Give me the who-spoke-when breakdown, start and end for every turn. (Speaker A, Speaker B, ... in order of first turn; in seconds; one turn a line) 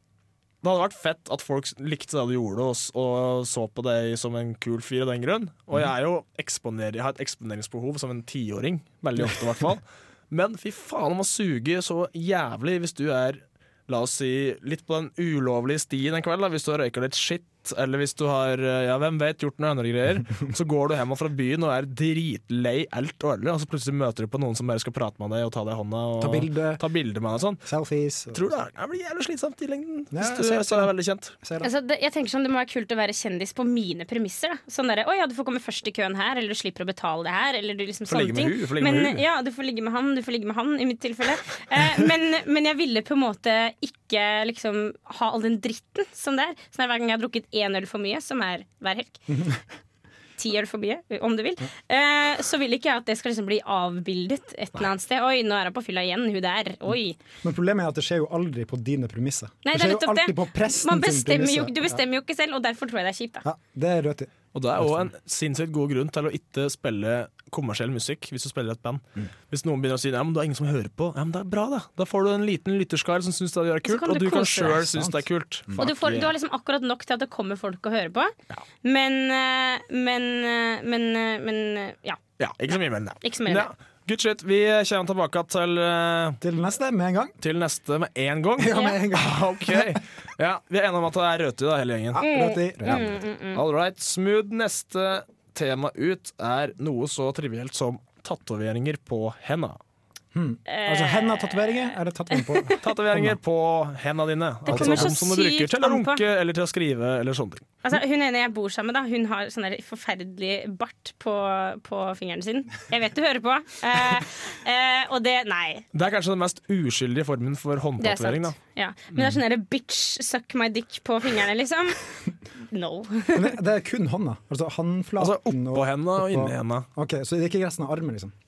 Speaker A: 0.6-27.6
Speaker B: 26.2-26.8
Speaker B: 27.6-28.4
Speaker A: 28.3-31.3
Speaker B: 30.1-31.7
Speaker C: 31.6-49.2
Speaker A: 38.1-39.2
Speaker B: 49.3-49.6
Speaker C: 50.4-57.2
Speaker B: 57.4-62.0
Speaker C: 59.6-63.4
Speaker B: 63.4-65.1
Speaker A: 64.5-76.3
Speaker C: 73.8-74.8
Speaker B: 74.6-75.8
Speaker C: 75.8-82.2
Speaker A: 82.4-86.4
Speaker C: 83.2-83.7
Speaker B: 86.4-87.3
Speaker A: 87.4-92.2
Speaker B: 88.6-90.0
Speaker B: 92.1-93.2
Speaker C: 92.2-93.6
Speaker A: 92.9-99.8
Speaker B: 100.3-103.4
Speaker C: 100.7-102.6
Speaker A: 102.8-107.7
Speaker C: 104.7-106.2
Speaker B: 104.7-105.2
Speaker C: 107.8-115.8
Speaker A: 115.9-118.6
Speaker C: 118.0-122.0
Speaker C: 122.7-123.5
Speaker B: 123.3-128.3
Speaker A: 125.2-126.9